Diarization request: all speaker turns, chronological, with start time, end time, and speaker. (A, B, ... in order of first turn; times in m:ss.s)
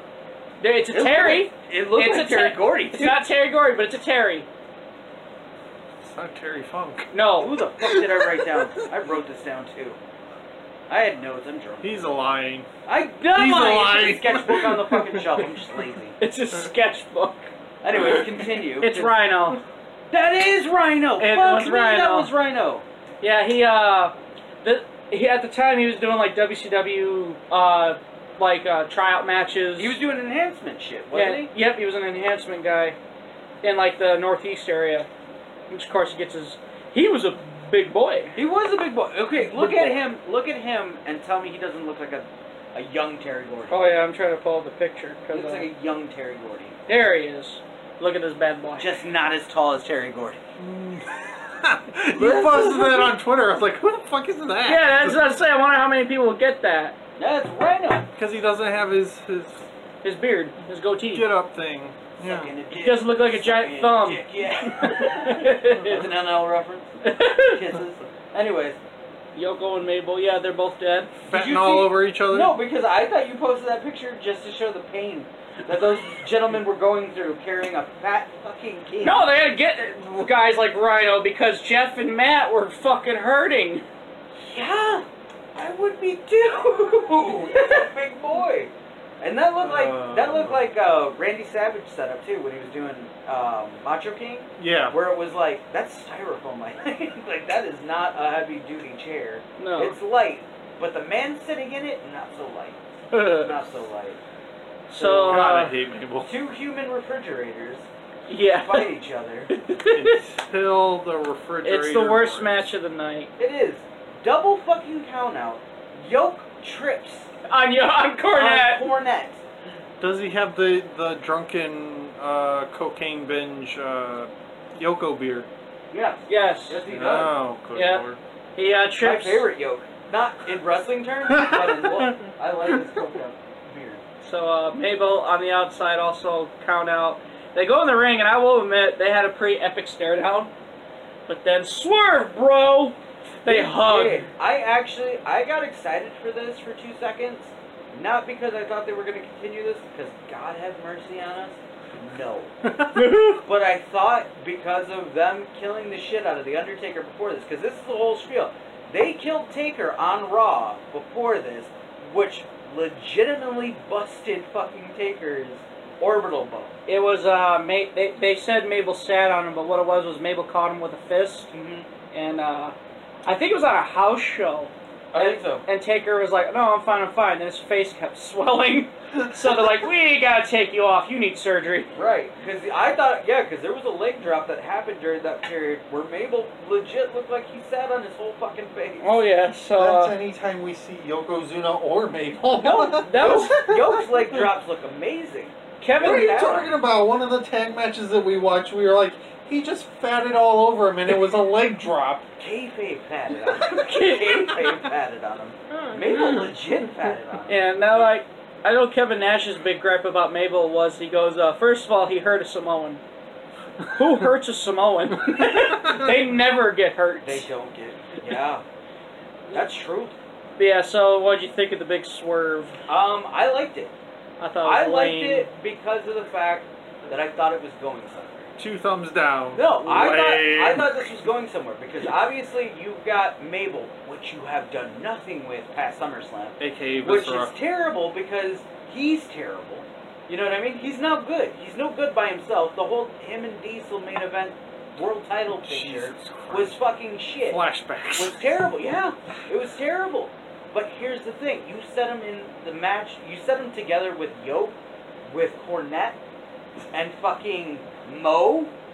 0:00.6-0:04.5 A
0:00.9-0:03.2 B
0:06.0-0:07.1 C
0:07.1-0:07.5 A
0:07.4-0:10.0 B
0:07.8-0:08.6 C
0:10.9-0:12.1 B
0:11.8-0:12.7 C
0:12.8-0:16.2 B
0:13.3-0:15.3 C
0:16.2-0:17.5 A
0:17.8-0:19.1 B
0:18.8-0:19.6 A
0:20.1-0:22.8 B
0:21.2-0:22.3 A
0:23.2-0:30.0 A
0:29.8-0:31.5 B
0:31.1-0:33.0 A
0:33.6-0:35.1 A
0:35.7-0:38.3 A
0:38.3-0:43.8 B
0:39.4-0:40.0 A
0:43.7-0:45.7 A
0:45.3-0:46.8 B
0:46.9-0:48.9 A
0:48.8-0:50.4 B
0:50.6-0:55.3 C
0:52.2-0:53.1 B
0:54.6-0:57.0 A
0:57.2-0:58.1 B
0:58.2-0:59.6 C
1:00.0-1:01.3 A
1:01.1-1:02.5 C
1:02.2-1:08.8 B
1:02.7-1:06.0 A
1:07.0-1:07.6 A
1:09.3-1:11.1 A
1:11.3-1:19.2 B
1:11.3-1:12.6 C
1:19.0-1:23.8 A
1:24.4-1:44.2 B
1:29.6-1:30.6 C
1:34.6-1:35.0 C
1:39.6-1:40.0 A
1:43.1-1:43.6 A
1:44.9-1:45.7 A
1:44.9-1:45.5 B
1:45.2-1:46.3 C
1:46.2-1:47.9 B
1:48.3-1:48.9 A
1:48.5-1:49.5 B
1:49.5-1:50.2 A
1:49.8-1:52.7 C
1:51.6-1:53.3 A
1:53.4-1:57.3 B
1:57.5-1:58.9 A
1:58.3-1:59.4 B
2:00.0-2:05.5 C
2:05.9-2:07.4 B
2:06.3-2:06.8 A
2:06.9-2:08.2 C
2:07.7-2:08.0 A
2:08.6-2:09.5 A
2:09.0-2:14.0 B
2:11.3-2:12.1 C
2:14.2-2:20.5 A
2:21.3-2:24.3 A
2:23.4-2:32.6 B
2:32.9-2:33.4 A
2:33.4-2:46.8 B
2:46.9-2:51.5 A
2:51.5-2:51.9 B
2:52.1-3:01.9 A
2:55.1-2:55.6 B
3:01.9-3:09.2 B
3:09.0-3:10.1 A
3:09.8-3:14.2 C
3:12.6-3:16.7 B
3:13.0-3:13.6 A
3:15.8-3:16.5 A
3:16.0-3:22.3 C
3:22.4-3:27.7 B
3:23.7-3:24.7 A
3:27.5-3:33.0 A
3:33.9-3:37.5 A
3:37.2-3:38.6 B
3:39.5-3:40.2 B
3:40.6-3:42.8 A
3:42.9-3:43.9 B
3:44.4-3:45.5 A
3:44.6-3:48.5 B
3:48.6-3:51.0 C
3:49.5-4:07.6 B
3:56.6-3:57.5 C
4:05.6-4:06.8 C
4:07.4-4:08.5 C
4:08.1-4:16.2 B
4:16.9-4:18.7 B